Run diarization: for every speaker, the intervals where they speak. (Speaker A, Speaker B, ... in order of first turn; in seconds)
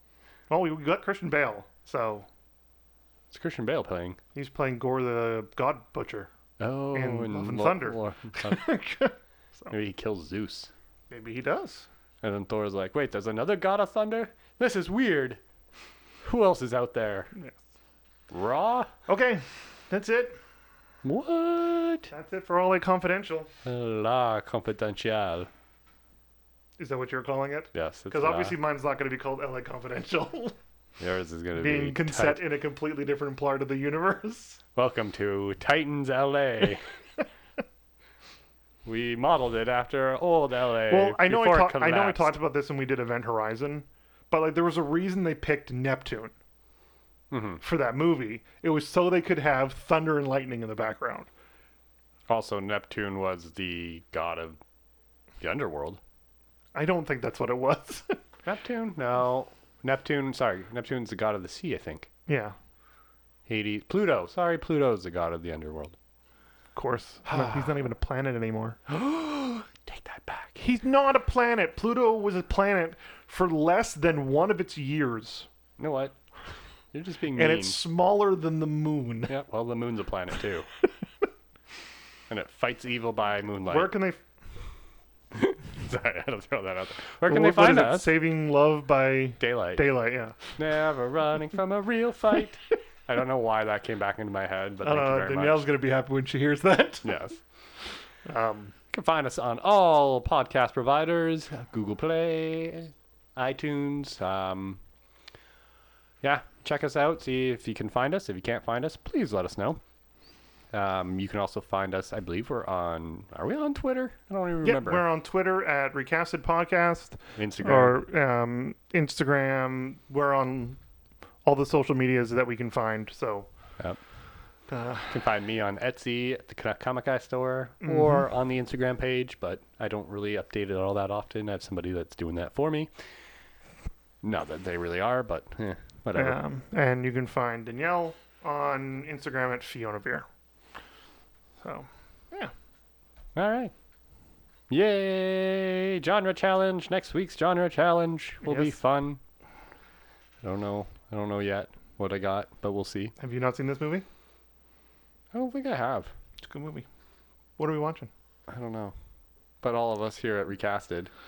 Speaker A: 0.5-2.3, 4.3-6.3, 6.9-9.7, 11.1-11.9, 17.3-17.6, 19.1-20.4, 22.1-23.5, 26.8-30.6, 31.6-34.6, 40.9-46.3, 47.6-51.3, 56.8-58.2, 62.3-62.6, 66.8-68.9, 70.6-75.5, 77.3-79.3, 83.7-84.2, 87.3-90.4, 94.8-97.2, 98.3-98.7, 114.6-120.8, 121.5-123.5, 124.7-125.2, 127.8-128.3, 136.2-140.3, 141.6-142.5, 148.4-148.8, 153.2-154.1, 156.4-156.9, 157.6-158.1
Speaker B: 3.3-4.2, 6.6-8.6, 9.7-10.7, 12.2-15.4, 16.2-17.3, 18.3-18.9, 21.0-22.1, 23.6-25.5, 27.7-28.6, 31.0-32.4, 34.8-36.9, 38.9-42.3, 47.3-47.6, 52.3-54.6, 55.4-56.0, 58.5-62.1, 63.5-66.0, 69.0-70.6, 75.8-76.2, 76.9-77.8, 79.3-80.7, 82.3-83.9, 85.3-88.1, 89.4-89.8, 90.5-95.7, 97.0-97.4, 98.9-104.8, 106.2-109.8, 110.7-115.0, 117.4-118.0, 125.1-132.9, 134.2-136.4, 143.4-143.7, 144.7-149.2, 150.4-153.1, 155.3-156.1, 158.5-158.9, 159.6-161.1